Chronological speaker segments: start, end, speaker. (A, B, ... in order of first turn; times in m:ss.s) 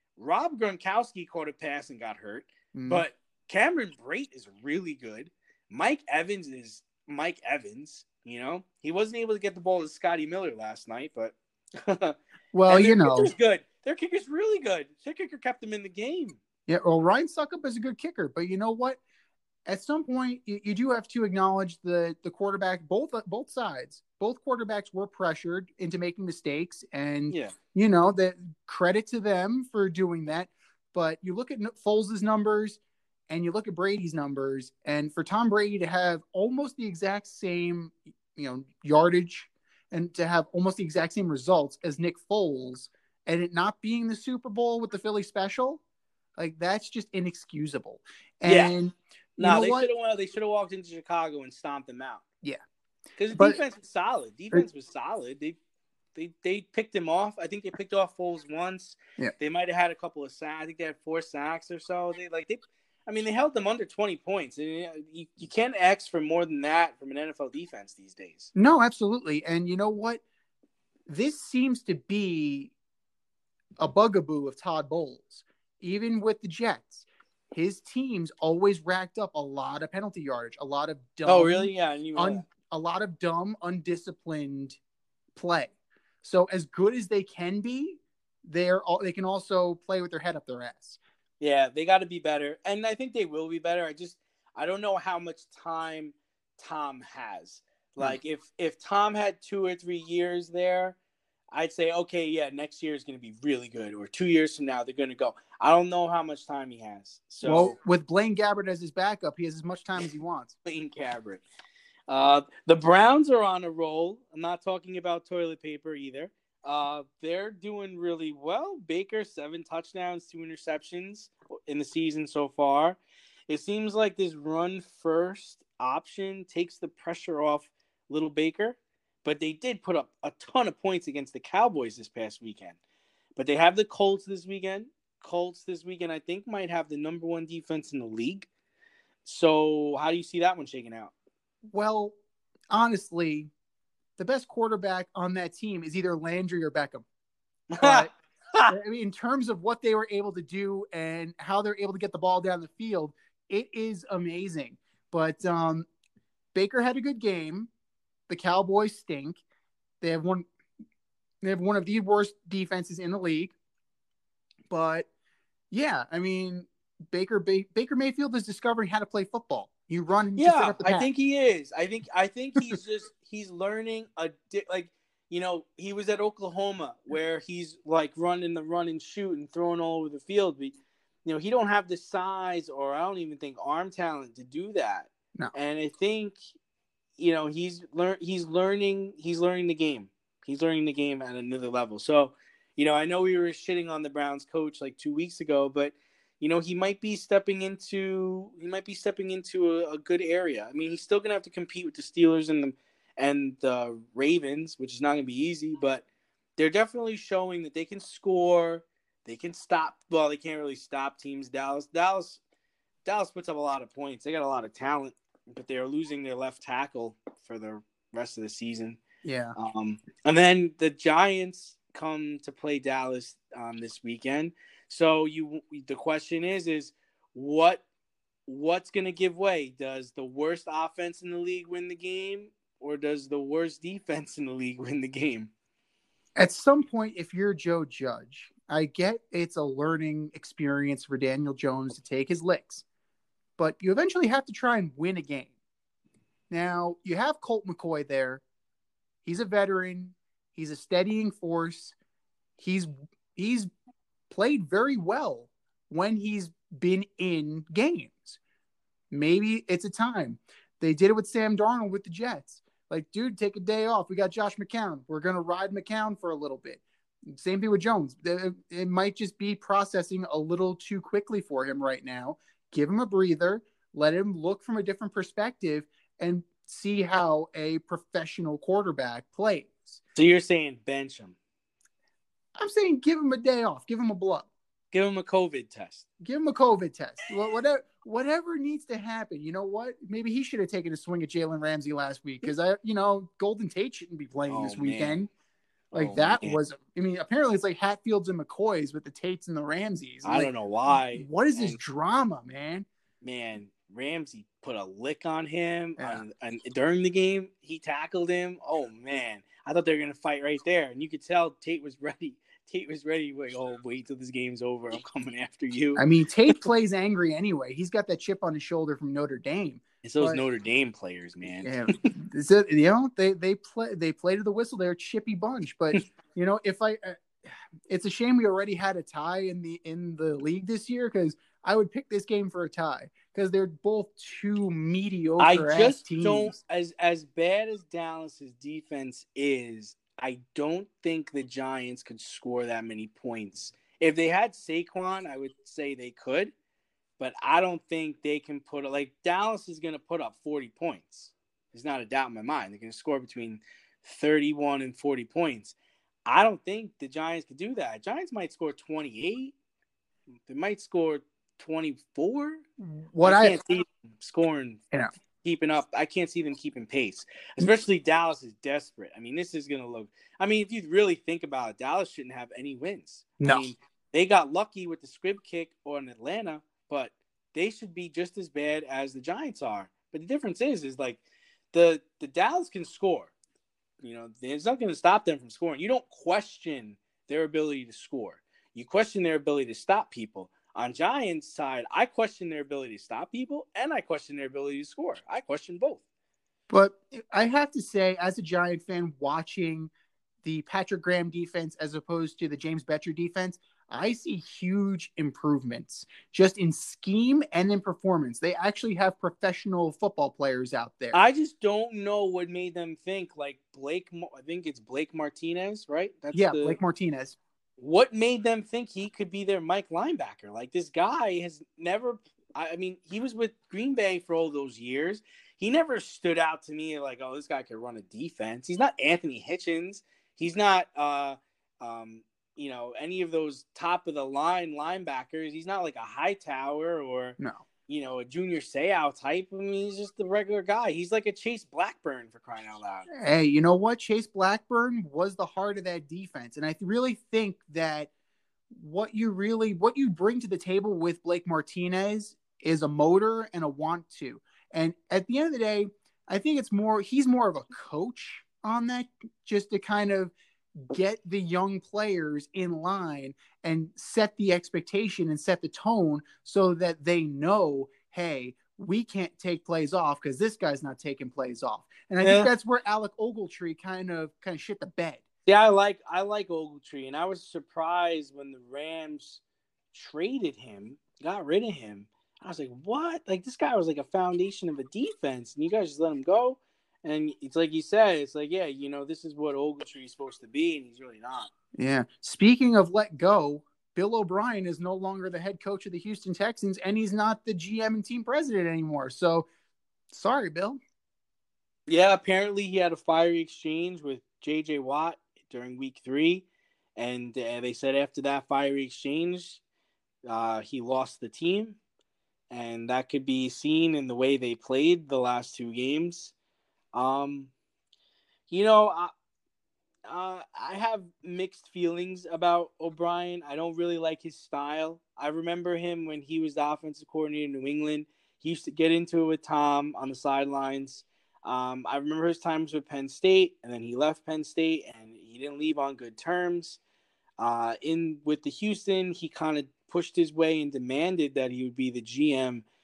0:00.2-0:12.2 A
0:02.7-0:03.0 B
0:12.5-0:13.3 B
0:12.7-0:16.4 A
0:16.7-0:19.0 B
0:19.7-0:45.8 B
0:27.3-0:27.6 A
0:46.4-0:49.9 B
0:48.5-0:48.8 A
0:49.4-0:52.2 A
0:53.2-0:55.6 A
0:53.3-0:53.6 B
0:56.2-1:08.5 A
1:08.6-1:10.2 B
1:11.1-1:12.7 B
1:13.8-1:24.8 B
1:21.3-1:22.5 A
1:25.4-1:31.0 B
1:31.4-1:41.0 A
1:41.5-1:47.8 A
1:47.4-1:50.6 B
1:50.6-1:51.4 A
1:52.1-2:12.8 A
2:13.4-2:18.5 A
2:19.2-2:21.1 A
2:21.6-2:22.2 B
2:22.7-2:23.5 B
2:24.2-2:27.0 B
2:27.7-2:28.8 A
2:27.8-2:28.1 B
2:28.7-2:35.9 B
2:36.5-2:37.7 B
2:38.3-2:39.4 B
2:40.0-2:40.5 B
2:41.4-2:43.5 B
2:44.7-2:45.1 B
2:45.7-2:51.1 B
2:50.4-3:06.4 A
3:07.2-3:26.0 A
3:26.6-3:32.4 A
3:33.1-3:39.0 A
3:39.2-3:39.6 B
3:39.6-3:47.8 A
3:48.5-3:55.5 A
3:56.4-4:02.8 B
4:03.6-4:05.5 B
4:06.5-4:08.4 B
4:09.2-4:12.0 B
4:12.6-4:13.7 B
4:14.3-4:18.4 B
4:19.1-4:40.0 B
4:40.2-4:41.4 A
4:42.6-4:44.5 B
4:44.9-4:46.1 A
4:46.2-4:55.3 B
4:54.5-4:55.3 A
4:55.9-4:56.6 A
4:55.9-5:00.5 B
5:00.2-5:01.8 A
5:01.1-5:02.9 B
5:03.2-5:16.7 A
5:06.0-5:06.2 B
5:16.0-5:20.4 B
5:20.0-5:22.0 A
5:21.6-5:27.2 B
5:27.9-5:36.5 B
5:35.4-5:46.5 A
5:47.2-5:59.6 A
6:00.5-6:02.6 A
6:02.8-6:03.6 B
6:03.2-6:04.8 A
6:05.4-6:21.2 A
6:13.4-6:13.7 B
6:21.7-6:23.3 A
6:24.0-6:36.0 A
6:36.7-6:39.9 B
6:40.4-6:51.2 B
6:51.1-6:56.8 A
6:56.3-6:57.4 B
6:57.8-7:23.1 A
7:23.1-7:28.1 B
7:28.7-7:55.2 B
7:52.2-7:52.5 A
7:55.5-7:59.4 A
7:59.9-8:11.5 A
8:11.8-8:19.5 B
8:20.1-8:20.8 B
8:21.9-8:26.5 A
8:27.0-8:29.6 A
8:30.2-8:31.8 A
8:32.5-8:36.3 A
8:36.9-8:37.5 A
8:38.5-8:39.1 A
8:40.1-8:56.8 A
8:57.4-9:02.6 A